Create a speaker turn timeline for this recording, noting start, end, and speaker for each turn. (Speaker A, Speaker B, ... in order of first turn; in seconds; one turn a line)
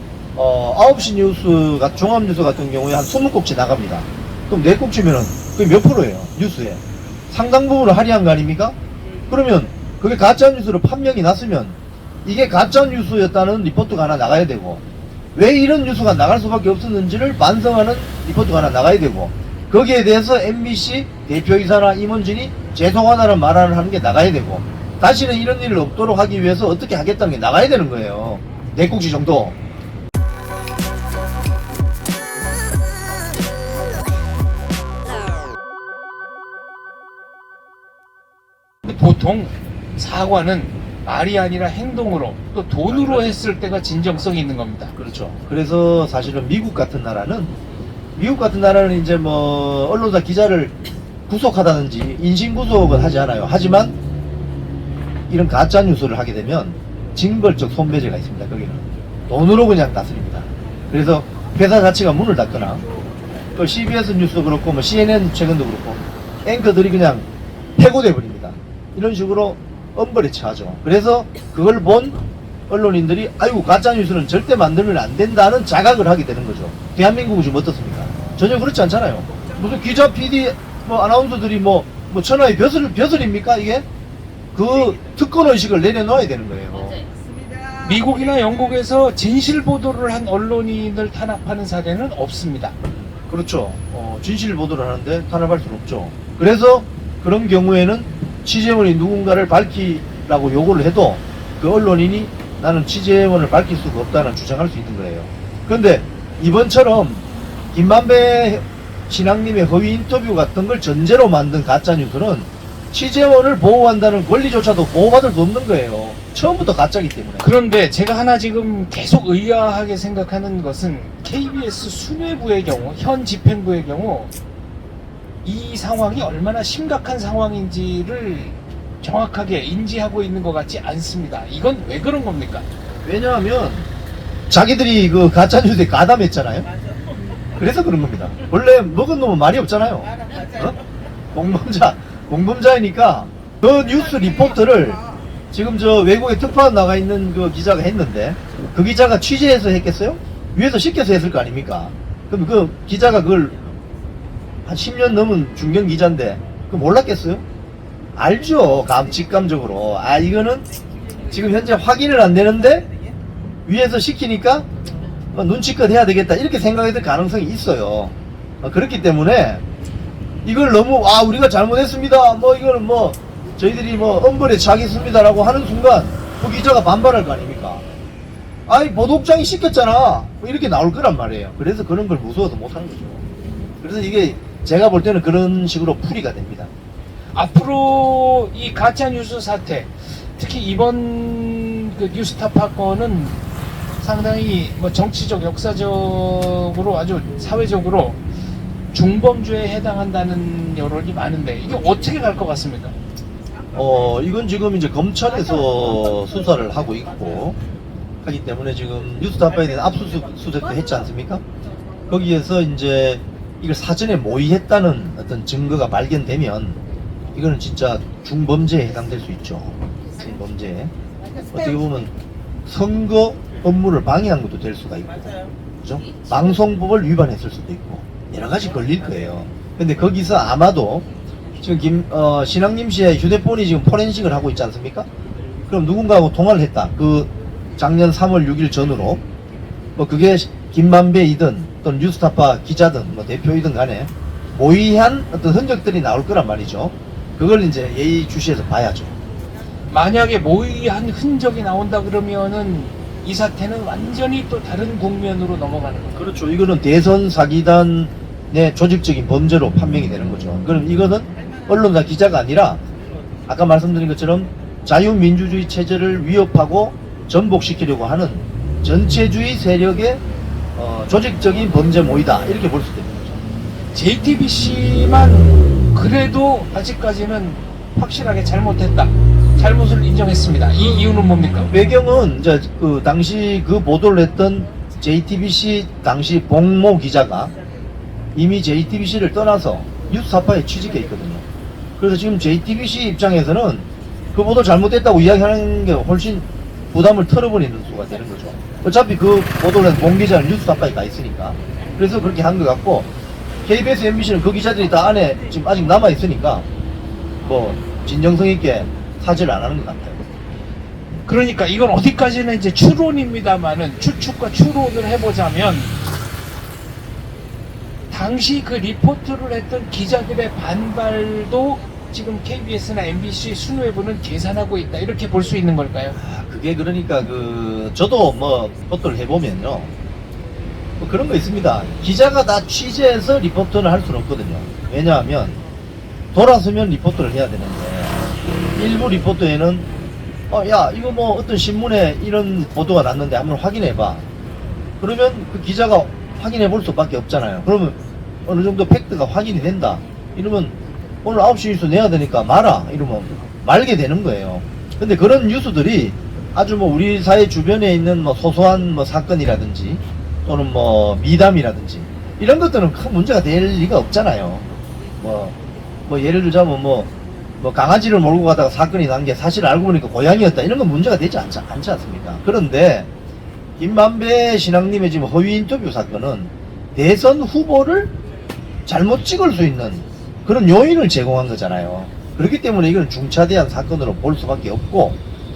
Speaker A: 0.3-8.8
Speaker A: 9.3-14.8
Speaker A: 15.3-29.6
Speaker B: 38.8-44.9
Speaker A: 42.9-43.4
Speaker A: 45.0-47.5
Speaker A: 48.1-50.7
Speaker A: 51.3-54.0
Speaker A: 55.3-62.8
Speaker A: 63.5-83.8
Speaker A: 84.5-87.0
Speaker B: 87.8-92.8
Speaker A: 92.9-117.5
Speaker B: 117.4-124.3
Speaker B: 125.4-132.7
Speaker A: 132.9-133.9
Speaker A: 134.5-136.7
Speaker A: 137.6-140.8
Speaker A: 141.3-153.6
Speaker A: 154.6-157.4
Speaker A: 158.2-160.7
Speaker A: 161.3-162.9
Speaker A: 163.7-164.7
Speaker A: 165.3-169.6
Speaker A: 170.4-177.8
Speaker A: 178.7-183.2
Speaker A: 183.8-186.7
Speaker B: 187.3-193.4
Speaker B: 194.0-198.2
Speaker B: 198.9-202.9
Speaker A: 203.7-207.6
Speaker A: 208.2-211.4
Speaker A: 212.1-216.8
Speaker A: 217.3-220.9
Speaker A: 221.5-222.1
Speaker A: 222.6-231.1
Speaker A: 231.6-235.1
Speaker A: 235.7-239.2
Speaker A: 240.0-249.2
Speaker B: 249.9-256.3
Speaker A: 256.1-262.8
Speaker A: 263.5-270.2
Speaker A: 270.8-273.4
Speaker B: 273.9-281.7
Speaker A: 281.7-287.5
Speaker A: 288.3-291.4
Speaker A: 292.0-303.1
Speaker A: 303.6-306.6
Speaker A: 307.4-310.2
Speaker B: 311.2-315.9
Speaker B: 318.1-326.2
Speaker A: 326.1-329.9
Speaker A: 331.0-335.6
Speaker A: 336.3-339.9
Speaker A: 340.5-344.3
Speaker A: 345.0-364.7
Speaker A: 365.2-365.5
Speaker A: 366.1-373.1
Speaker A: 373.8-378.2
Speaker A: 378.9-385.2